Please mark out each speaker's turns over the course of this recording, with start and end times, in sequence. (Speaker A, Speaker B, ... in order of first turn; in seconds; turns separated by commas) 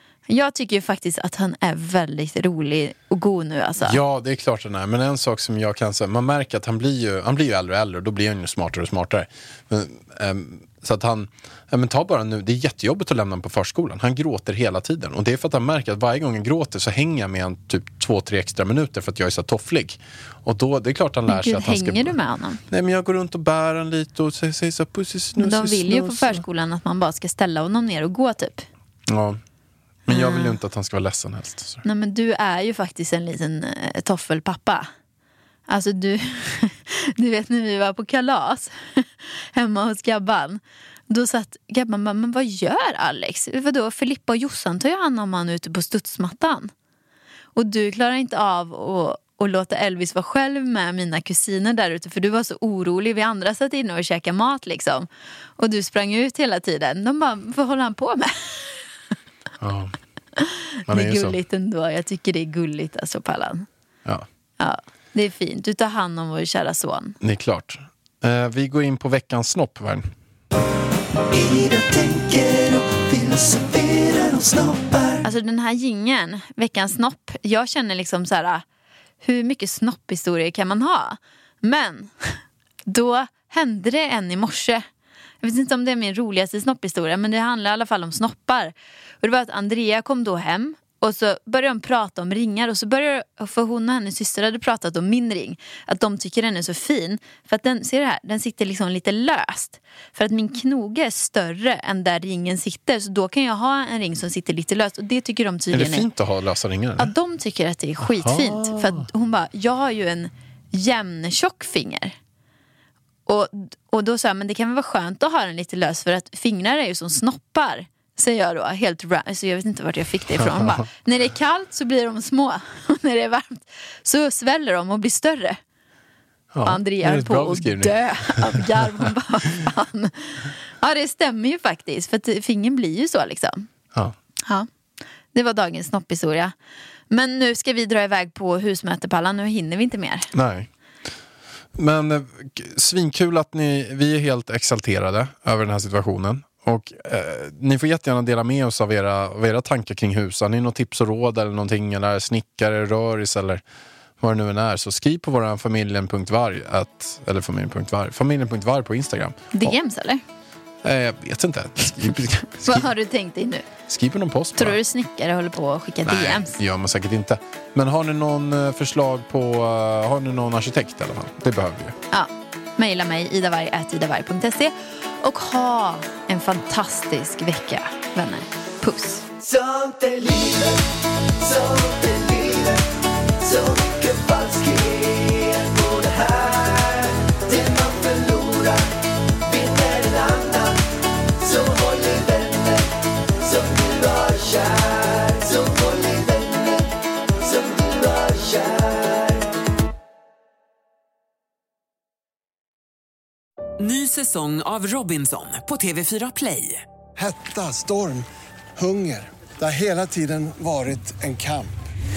Speaker A: 0.3-4.0, Speaker B: 3.8-22.1, Speaker A: 21.3-22.6, Speaker B: 22.7-26.4, Speaker A: 25.4-28.6, Speaker B: 29.1-29.4, Speaker B: 30.1-31.8, Speaker A: 30.1-30.6, Speaker A: 31.8-34.9, Speaker A: 35.7-46.7, Speaker A: 47.5-58.8, Speaker B: 59.6-60.0, Speaker A: 60.4-63.7, Speaker B: 60.9-61.4, Speaker A: 64.6-67.2, Speaker B: 67.2-70.1, Speaker C: 71.3-75.2, Speaker A: 75.2-78.6, Speaker A: 79.2-84.8, Speaker A: 85.4-106.1, Speaker B: 105.7-107.1, Speaker A: 107.0-112.1, Speaker B: 108.0-109.0, Speaker A: 113.3-125.6, Speaker B: 120.3-120.8, Speaker B: 126.5-129.1, Speaker A: 126.6-133.7, Speaker A: 135.3-136.5, Speaker A: 137.1-140.3, Speaker B: 140.3-140.7, Speaker B: 141.7-153.6, Speaker B: 154.2-159.7, Speaker A: 159.5-160.2, Speaker B: 160.8-162.9, Speaker A: 162.6-163.7, Speaker B: 163.9-164.8, Speaker A: 164.6-166.6, Speaker B: 166.0-171.9, Speaker A: 172.1-179.2, Speaker C: 179.4-180.8, Speaker C: 181.4-188.9, Speaker C: 189.4-190.8, Speaker C: 191.4-199.5, Speaker D: 203.8-206.8, Speaker E: 207.2-208.2, Speaker E: 208.8-211.9